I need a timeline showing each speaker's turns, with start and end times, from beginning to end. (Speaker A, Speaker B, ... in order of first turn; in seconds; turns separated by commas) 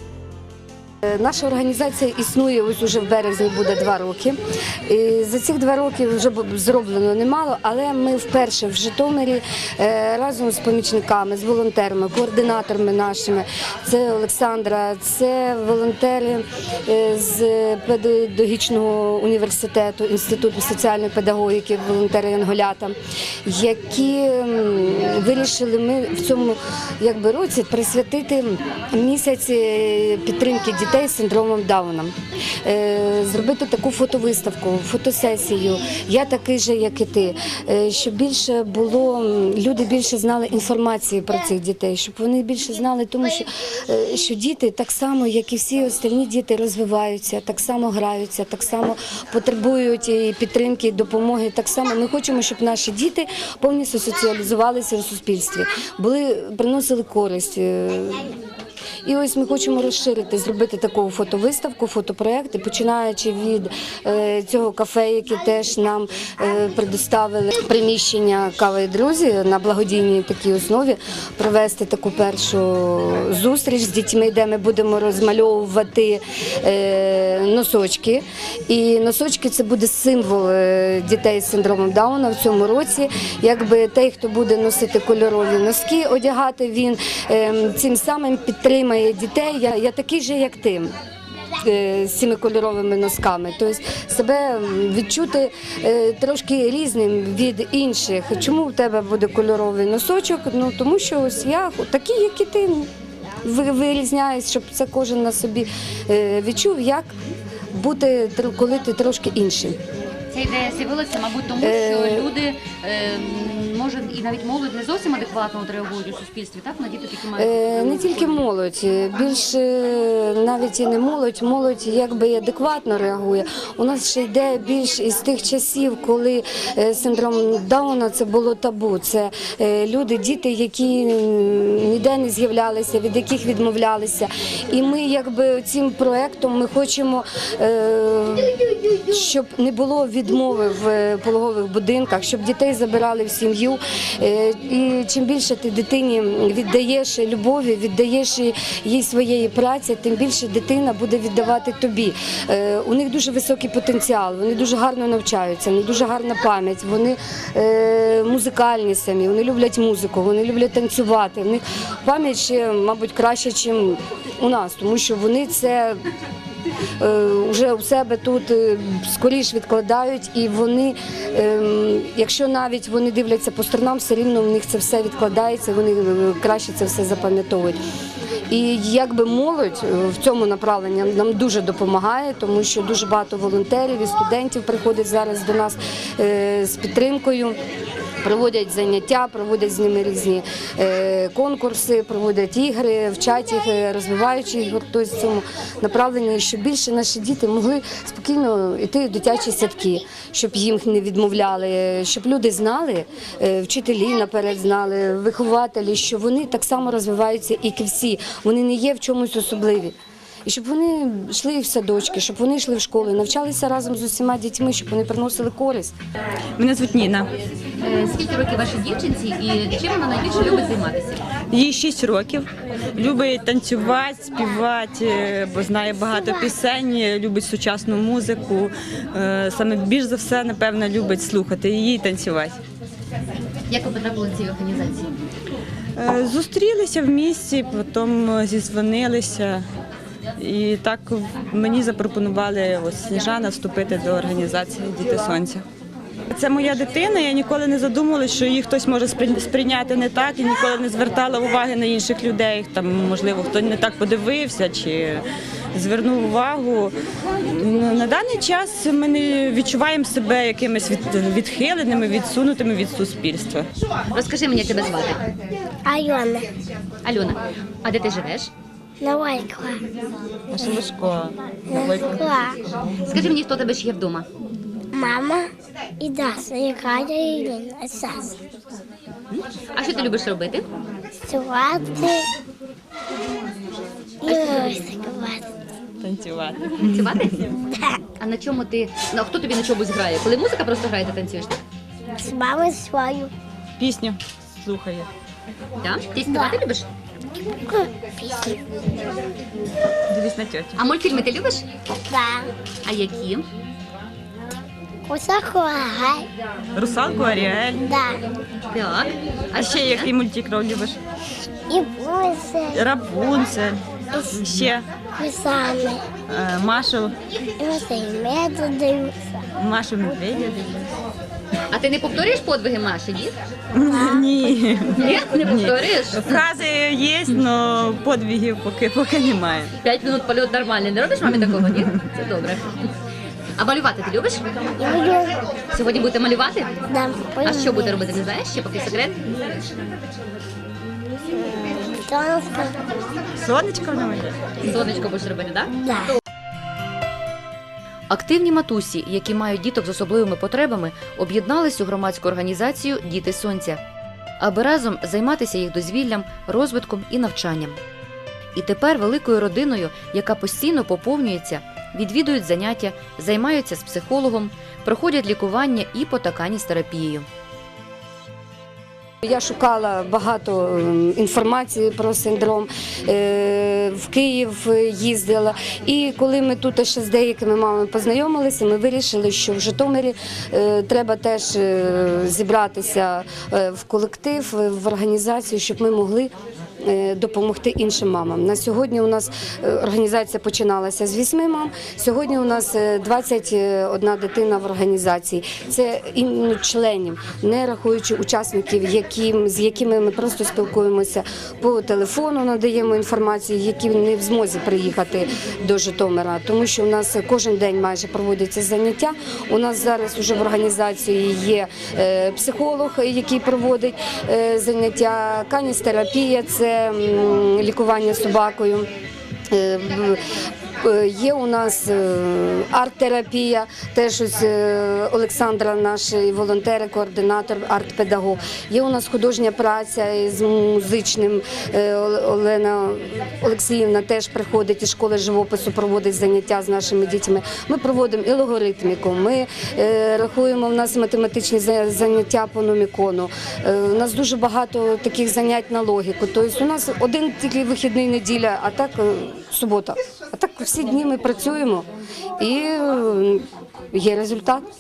Speaker A: 1.0-58.3, Speaker A: 59.0-90.9, Speaker A: 91.6-102.9, Speaker A: 103.4-107.1, Speaker A: 107.7-109.8, Speaker B: 110.3-118.4, Speaker A: 111.6-112.3, Speaker A: 117.3-166.0, Speaker A: 167.0-177.8, Speaker A: 178.5-187.6, Speaker A: 188.2-209.9, Speaker A: 210.4-215.9, Speaker C: 216.6-217.3, Speaker B: 217.8-221.2, Speaker C: 221.5-232.6, Speaker D: 226.1-226.5, Speaker B: 233.7-235.1, Speaker C: 235.9-239.6, Speaker C: 240.4-245.6, Speaker C: 246.3-256.9, Speaker C: 257.4-263.7, Speaker B: 264.1-265.2, Speaker D: 265.8-266.5, Speaker B: 267.0-268.5, Speaker D: 269.0-269.8, Speaker C: 270.5-272.1, Speaker D: 271.7-272.6, Speaker B: 273.1-274.3, Speaker D: 274.9-275.5, Speaker D: 276.0-278.3, Speaker B: 279.3-280.6, Speaker D: 281.3-282.2, Speaker D: 284.2-285.5, Speaker C: 286.0-287.2, Speaker B: 286.8-287.5, Speaker D: 287.5-288.0, Speaker B: 288.2-291.6, Speaker D: 292.2-293.3, Speaker C: 293.8-295.1, Speaker B: 295.8-296.9, Speaker D: 296.3-296.6, Speaker D: 297.6-298.6, Speaker C: 300.1-300.8, Speaker B: 300.8-301.6, Speaker D: 301.9-302.5, Speaker B: 302.8-303.4, Speaker D: 305.1-306.3, Speaker C: 306.8-307.8, Speaker D: 307.8-308.2, Speaker B: 308.7-310.1, Speaker C: 309.5-310.9, Speaker D: 311.7-312.8, Speaker C: 312.7-313.8, Speaker D: 314.1-314.4, Speaker C: 314.3-314.9, Speaker D: 315.2-316.0, Speaker C: 316.3-317.1, Speaker D: 317.6-319.4, Speaker C: 319.6-320.7, Speaker B: 321.7-323.4, Speaker C: 323.7-329.7, Speaker B: 324.9-326.4, Speaker B: 329.8-332.9, Speaker B: 333.6-334.4, Speaker D: 334.8-335.3, Speaker B: 335.7-336.7, Speaker D: 336.9-338.0, Speaker B: 337.4-339.2, Speaker D: 341.3-342.8, Speaker C: 343.4-344.4, Speaker B: 344.6-345.7, Speaker D: 345.8-346.1, Speaker E: 348.1-353.8, Speaker E: 354.4-357.8, Speaker E: 358.5-367.3, Speaker A: 369.2-418.9, Speaker A: 419.5-420.2, Speaker A: 420.8-451.9, Speaker A: 452.4-454.6